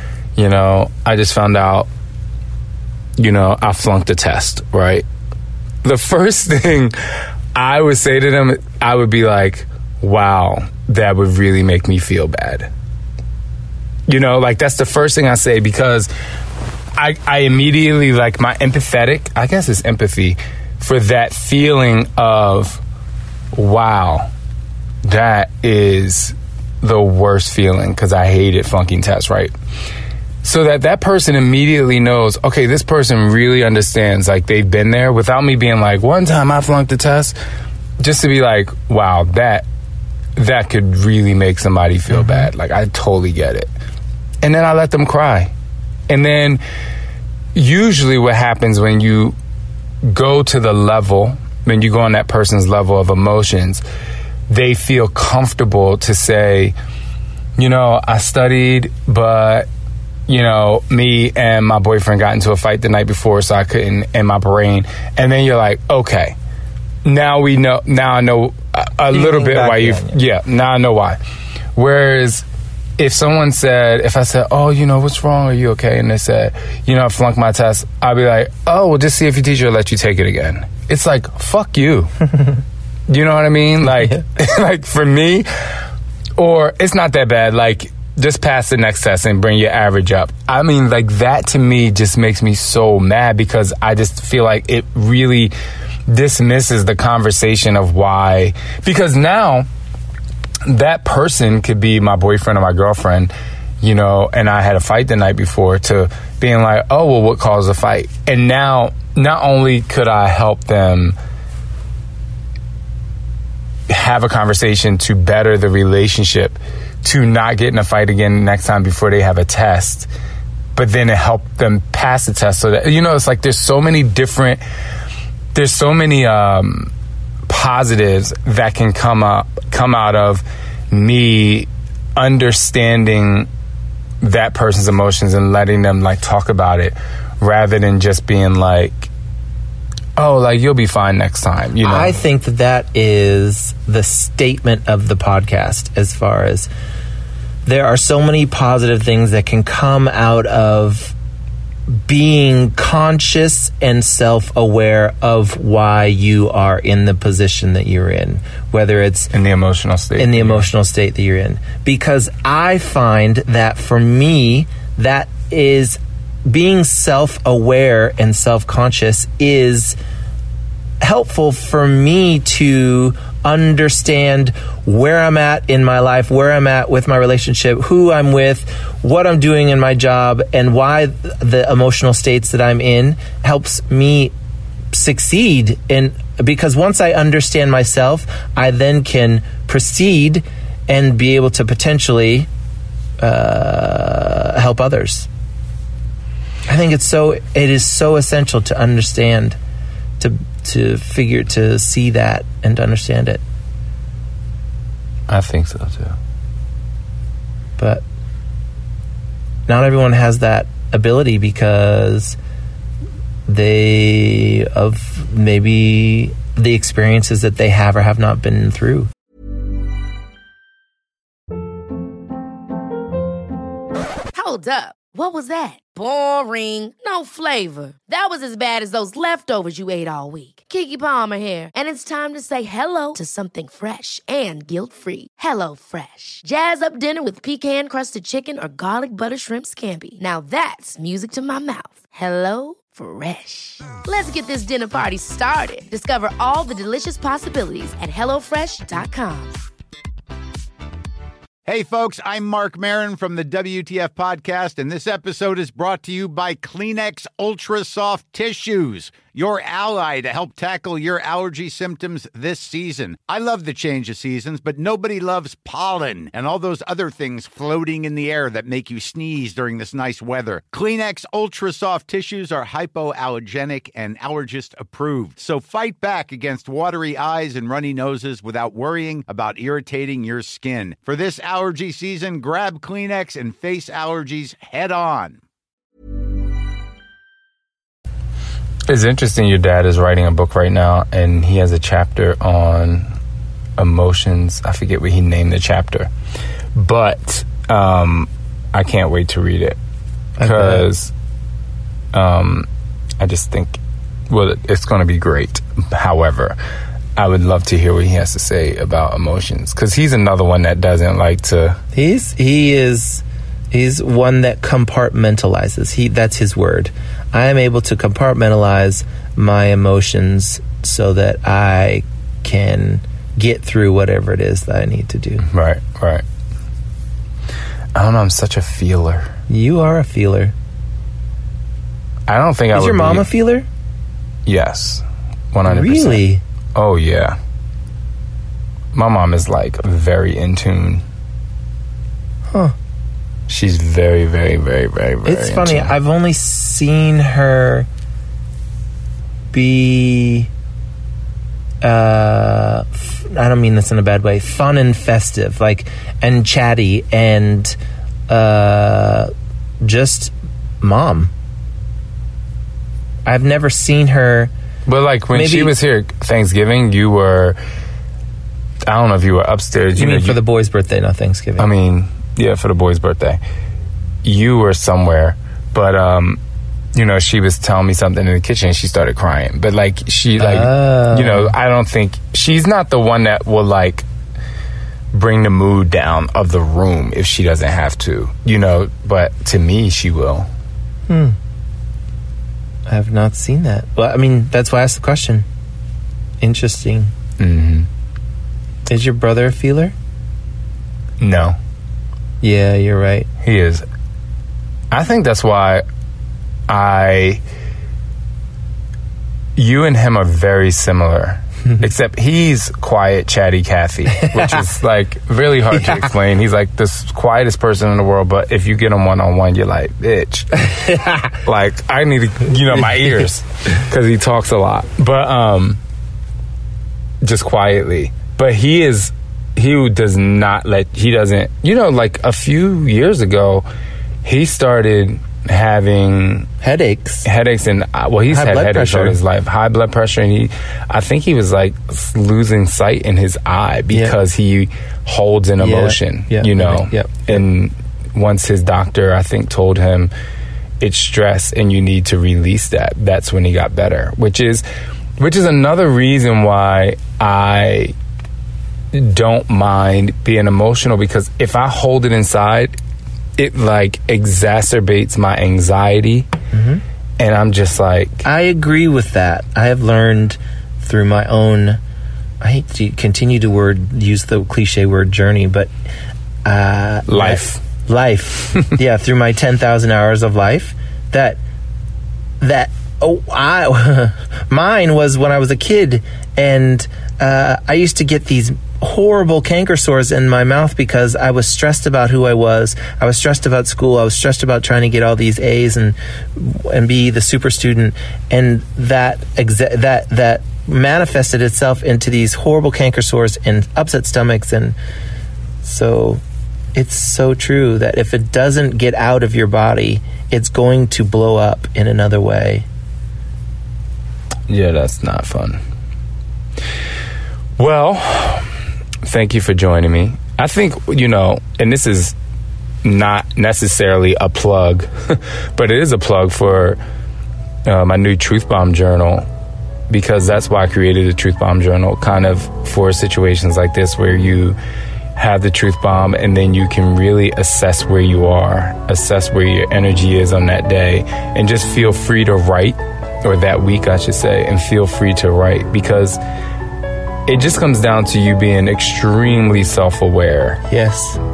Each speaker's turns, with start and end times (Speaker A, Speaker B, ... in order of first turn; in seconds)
Speaker A: 0.4-1.9, 3.2-5.0, 5.8-7.0, 7.5-12.7, 14.1-16.1, 17.0-22.8, 23.5-24.3, 25.0-29.5, 30.4-37.4, 38.0-39.6, 40.4-43.7, 44.4-45.5, 46.1-46.6, 47.5-49.4, 50.0-53.8, 54.5-56.8, 57.6-59.7, 60.3-66.4, 67.0-71.2, 71.8-72.5, 73.0-82.1, 83.1-85.5, 86.4-95.5, 96.1-99.7, 100.7-111.2, 113.9-120.1, 120.8-124.6, 125.5-126.9, 127.5-133.5, 134.2-139.1, 140.2-142.2, 159.3-160.7, 205.3-206.2, 288.9-293.1, 293.8-296.1, 296.8-299.8, 300.4-301.1, 302.1-302.7, 303.2-303.8, 304.3-306.6, 307.2-311.8, 325.4-326.2, 327.9-329.3, 332.3-333.3, 334.5-336.2, 336.8-337.4, 338.9-341.0, 343.5-345.9, 364.9-367.6, 368.9-370.4, 371.6-373.4, 374.2-376.4, 376.9-384.1, 385.1-390.5, 397.4-397.9, 401.2-401.6, 403.4-403.9, 404.9-405.9, 406.7-407.4, 409.6-420.6, 421.3-425.8, 427.2-433.6, 434.2-436.5, 437.2-450.1, 450.8-454.6, 455.2-457.9, 458.9-462.8, 463.4-466.3, 467.2-468.2, 477.1-477.6, 514.5-515.6, 517.6-518.5, 519.0-522.1, 522.8-526.8, 527.6-529.3, 529.9-534.6, 535.2-546.2, 547.3-550.6
Speaker B: 42.1-42.5, 69.1-70.2, 141.8-146.7, 147.7-151.2, 151.9-159.3, 160.2-170.0, 171.0-184.3, 184.9-192.5, 193.2-195.3, 196.7-199.6, 200.2-203.4, 207.8-208.0, 209.7-212.4, 213.5-219.1, 300.4-300.9, 311.9-325.5, 329.5-330.5, 332.7-333.7, 335.6-336.4, 342.5-342.8, 345.2-347.9, 349.5-350.5, 351.8-357.8, 358.3-359.3, 359.8-361.3, 363.3-364.5, 365.3-365.8, 369.9-371.7, 380.4-381.6, 391.1-391.4, 392.9-395.5, 396.4-397.1, 398.9-399.9, 402.4-403.3, 436.6-437.3, 438.3-439.2, 443.9-444.2, 445.6-447.4, 466.5-466.8, 468.2-471.8, 472.4-475.7, 476.4-481.4, 482.4-504.8, 505.6-506.2, 506.7-512.7, 550.7-551.2
Speaker C: 224.3-249.6
Speaker D: 251.7-285.4